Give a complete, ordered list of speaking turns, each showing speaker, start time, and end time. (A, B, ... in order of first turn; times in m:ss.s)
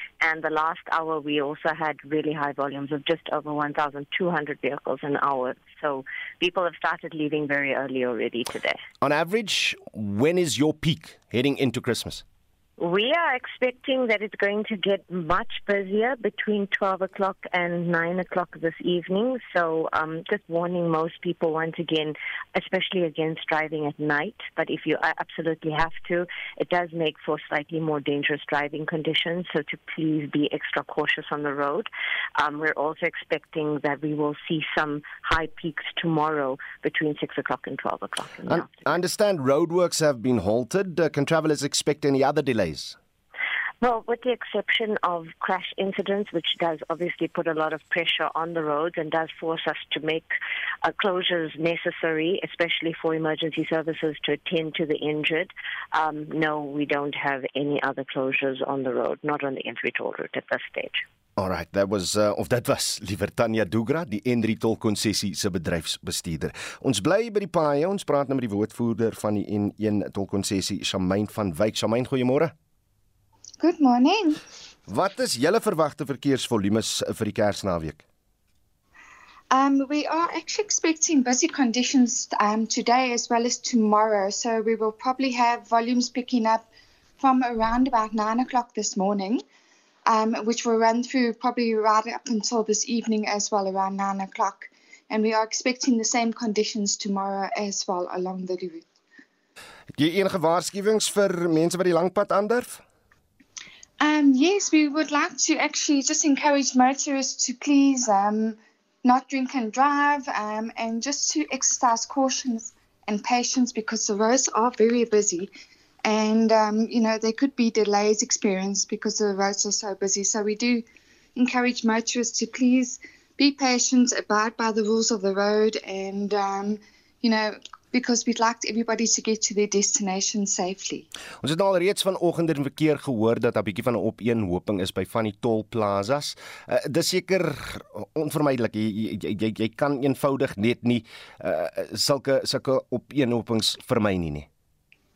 0:00.2-0:08.8 A
0:09.0-0:12.2 B
0:12.8-0:38.7 A
0:38.5-0:43.0 B
0:43.8-0:50.3 A
0:50.8-1:01.0 A
1:01.4-1:12.5 B
1:13.6-1:14.4 C
1:14.9-1:18.0 B
1:19.5-1:26.7 C
1:27.2-1:29.4 C
1:30.1-1:38.8 C
1:40.0-1:42.8 B
1:44.0-1:55.5 C
1:56.0-2:11.1 C
2:11.4-2:24.5 B